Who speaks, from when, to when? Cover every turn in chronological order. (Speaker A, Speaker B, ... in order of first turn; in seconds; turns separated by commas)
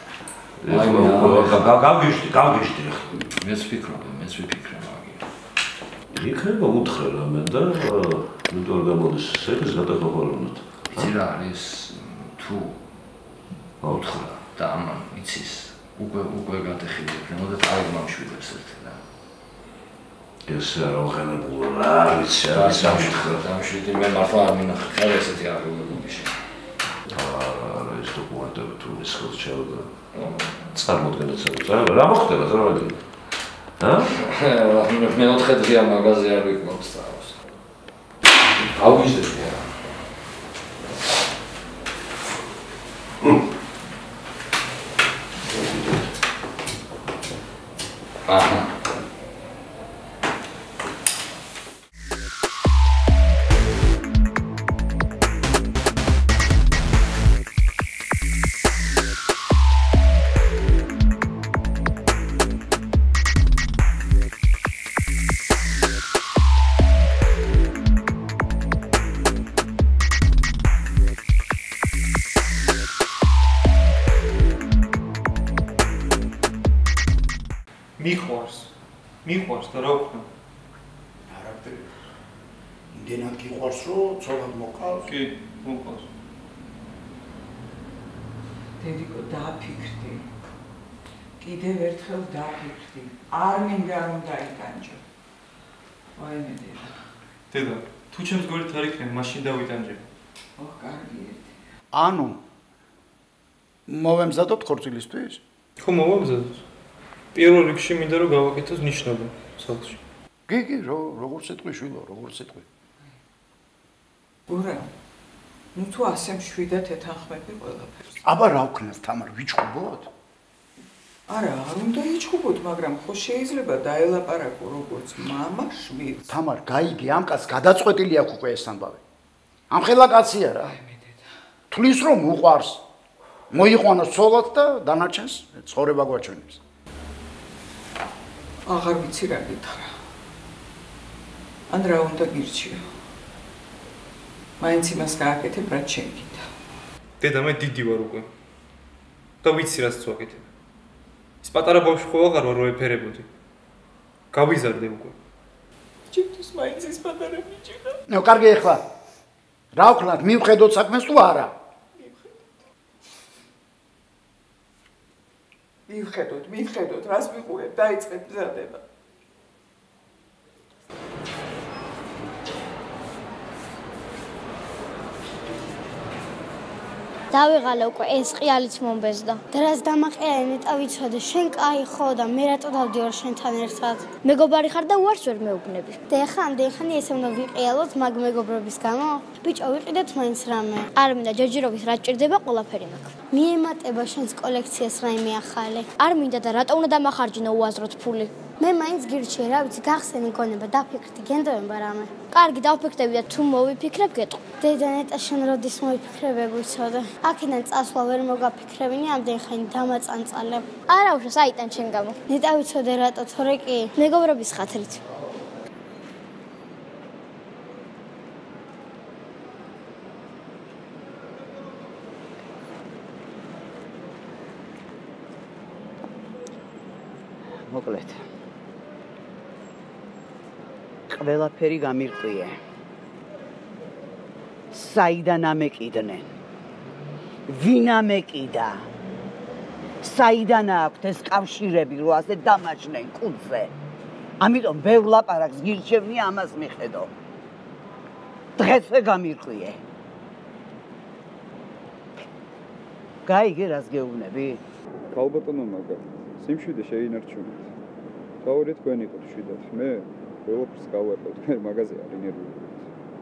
Speaker A: 0.6-3.3, Speaker B: 0.7-1.8, Speaker B: 3.4-5.3, Speaker A: 6.1-11.1, Speaker B: 10.9-12.8, Speaker A: 13.8-14.3, Speaker B: 13.9-19.0, Speaker A: 20.5-23.4, Speaker B: 22.5-26.4, Speaker A: 27.1-30.0, Speaker B: 30.1-30.7, Speaker A: 30.7-33.0, Speaker A: 33.8-34.1, Speaker B: 34.2-37.4, Speaker B: 38.7-39.6, Speaker B: 48.2-48.8, Speaker C: 78.0-78.7, Speaker C: 79.2-80.2, Speaker D: 81.3-81.9, Speaker D: 82.9-85.1, Speaker C: 85.1-86.1, Speaker E: 88.8-90.3, Speaker E: 91.4-95.0, Speaker E: 96.2-97.0, Speaker C: 97.5-100.0, Speaker E: 100.6-101.6, Speaker D: 101.9-102.4, Speaker D: 103.9-105.4, Speaker C: 105.8-106.6, Speaker C: 107.3-110.0, Speaker D: 110.5-112.7, Speaker E: 114.5-114.9, Speaker E: 115.7-118.0, Speaker D: 118.2-120.1, Speaker E: 121.3-126.2, Speaker D: 126.3-129.0, Speaker D: 129.7-130.7, Speaker E: 130.6-131.3, Speaker D: 131.7-132.8, Speaker D: 133.5-136.6, Speaker E: 138.7-139.9, Speaker E: 141.7-142.8, Speaker E: 144.6-146.5, Speaker C: 147.2-148.3, Speaker C: 149.4-150.5, Speaker C: 151.4-153.3, Speaker C: 154.3-155.2, Speaker E: 156.1-158.0, Speaker D: 158.1-158.8, Speaker D: 159.7-161.5, Speaker E: 162.0-162.3, Speaker E: 165.9-168.8, Speaker F: 177.3-215.0, Speaker G: 227.6-228.2, Speaker G: 231.1-232.6, Speaker G: 234.7-236.3, Speaker G: 237.5-238.8, Speaker G: 240.0-243.7, Speaker G: 244.4-247.1, Speaker G: 248.6-249.8, Speaker G: 253.2-254.6, Speaker H: 255.1-257.7, Speaker H: 258.4-262.9